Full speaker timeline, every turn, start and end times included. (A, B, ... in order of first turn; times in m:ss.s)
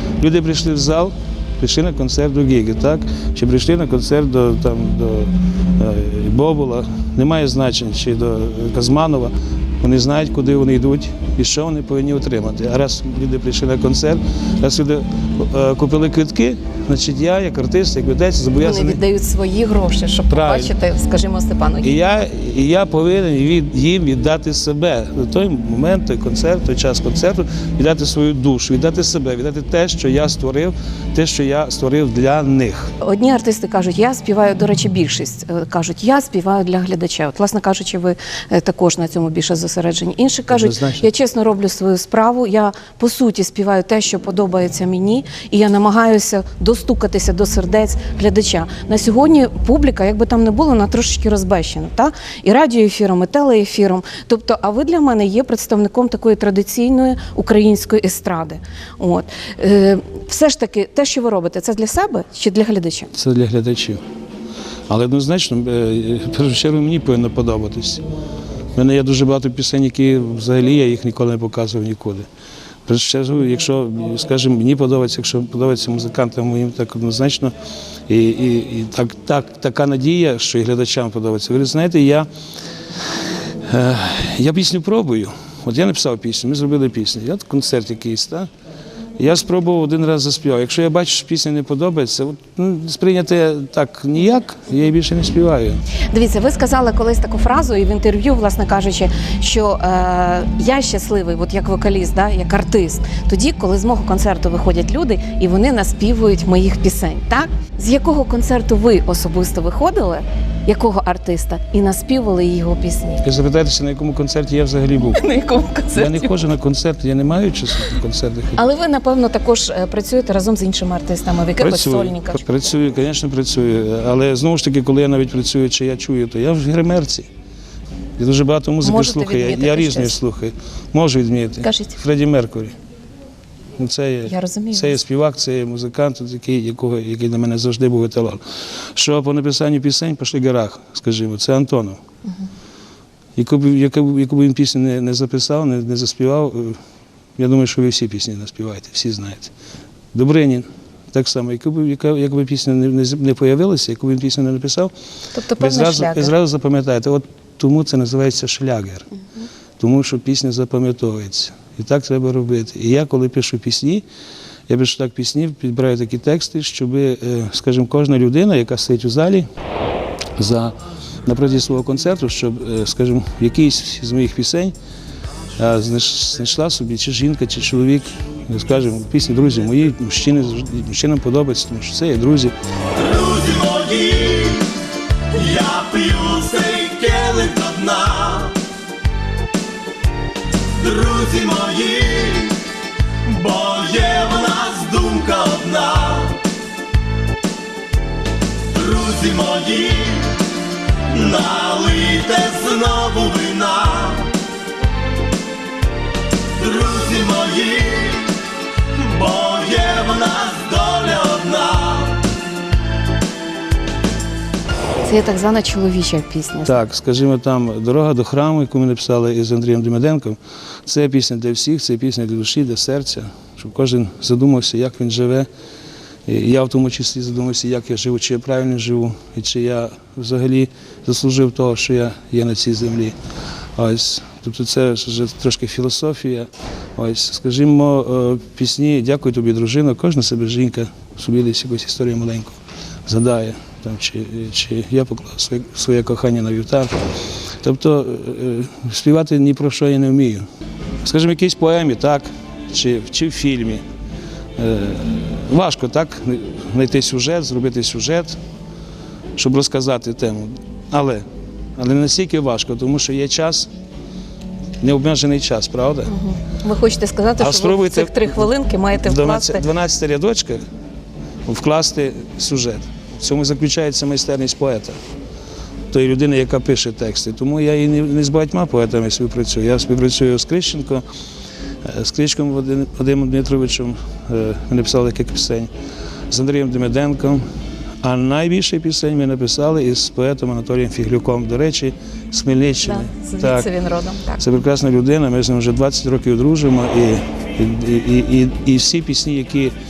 0:00.2-0:19.0 A
0:18.6-0:21.9 B
0:20.3-0:20.7 A
0:21.8-0:32.9 A
0:33.0-1:03.1 B
0:40.5-0:41.1 A
1:03.1-1:04.0 A
1:04.9-1:08.0 A
1:08.7-1:12.3 A
1:12.8-1:17.5 A
1:18.1-1:22.3 A
1:23.6-1:28.5 A
1:29.2-1:35.8 A
1:36.1-1:53.2 B
1:53.2-1:55.2 A
1:55.0-1:56.4 B
1:55.9-1:58.6 A
1:58.6-2:02.7 B
2:01.6-2:07.3 A
2:08.2-2:12.8 A
2:08.8-2:10.2 B
2:11.6-2:12.0 B
2:13.8-2:18.4 A
2:14.2-2:15.0 B
2:18.9-2:22.0 A
2:23.4-2:26.8 A
2:27.4-2:29.5 A
2:30.1-2:34.9 A
2:35.3-2:36.3 B
2:35.6-2:39.1 A
2:39.8-2:44.0 A
2:44.7-2:49.5 A
2:50.4-2:54.7 A
2:55.6-3:02.5 A
3:03.0-3:04.7 C
3:05.3-3:08.6 C
3:10.7-3:12.6 C
3:13.2-3:16.4 C
3:18.7-3:20.4 C
3:21.1-3:24.3 C
3:26.5-3:28.3 C
3:28.9-3:32.2 C
3:35.0-3:36.8 B
3:36.6-3:45.5 A
3:46.2-3:53.2 A
3:53.8-4:06.9 A
4:07.6-4:10.4 A
4:11.0-4:13.8 A
4:14.6-4:18.4 A
4:19.4-4:21.2 A
4:21.8-4:23.7 A
4:24.8-4:26.1 A
4:26.1-4:29.6 B
4:27.4-4:30.6 A
4:31.4-4:35.0 A
4:35.9-4:41.0 A
4:41.8-4:45.7 A
4:46.3-4:47.4 A
4:48.0-4:53.7 A
4:52.8-4:54.4 B
4:54.4-4:59.7 A